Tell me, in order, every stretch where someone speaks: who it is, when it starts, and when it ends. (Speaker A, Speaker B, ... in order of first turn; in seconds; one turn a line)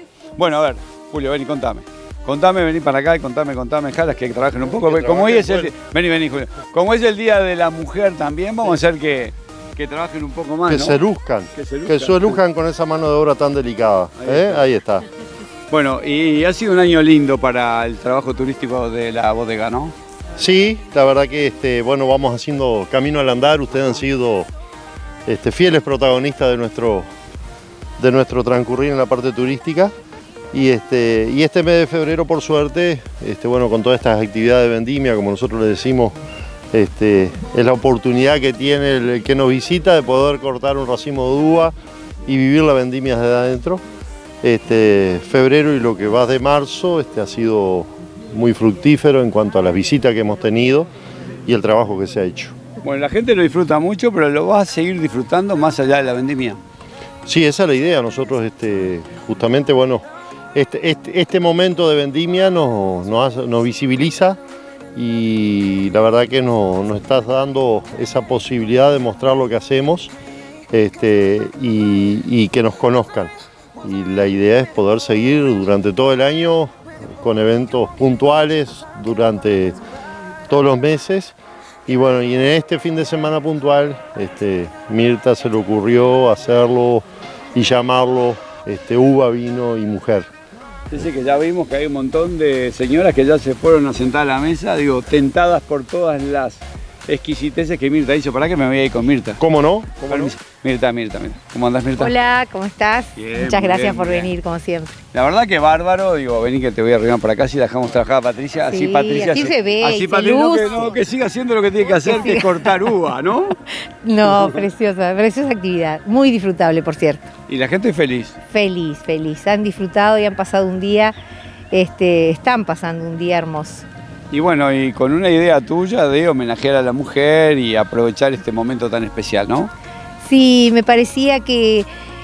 Speaker A: 0.4-11.0
Speaker B: 4.7-5.7
Speaker B: 10.7-15.0
Speaker A: 11.5-12.4
Speaker A: 14.2-14.7
Speaker A: 15.7-19.9
Speaker B: 20.4-24.5
Speaker B: 25.3-27.1
Speaker B: 28.0-29.9
Speaker B: 30.5-36.1
Speaker B: 36.7-41.7
Speaker B: 42.3-43.8
Speaker B: 44.4-50.9
Speaker B: 51.5-52.5
Speaker A: 52.8-56.6
Speaker B: 57.2-64.4
Speaker B: 65.0-70.1
Speaker B: 70.7-73.3
Speaker B: 73.8-79.8
Speaker B: 80.5-81.3
Speaker B: 81.9-90.3
Speaker A: 90.9-99.4
Speaker B: 99.4-100.3
Speaker A: 100.0-102.2
Speaker C: 102.0-104.9
Speaker A: 103.2-104.3
Speaker A: 105.1-113.5
Speaker C: 108.7-111.0
Speaker C: 111.9-112.9
Speaker C: 114.0-117.3
Speaker A: 114.2-114.6
Speaker A: 117.5-118.4
Speaker C: 118.5-121.2
Speaker C: 121.7-123.9
Speaker A: 124.3-129.7
Speaker C: 130.2-131.9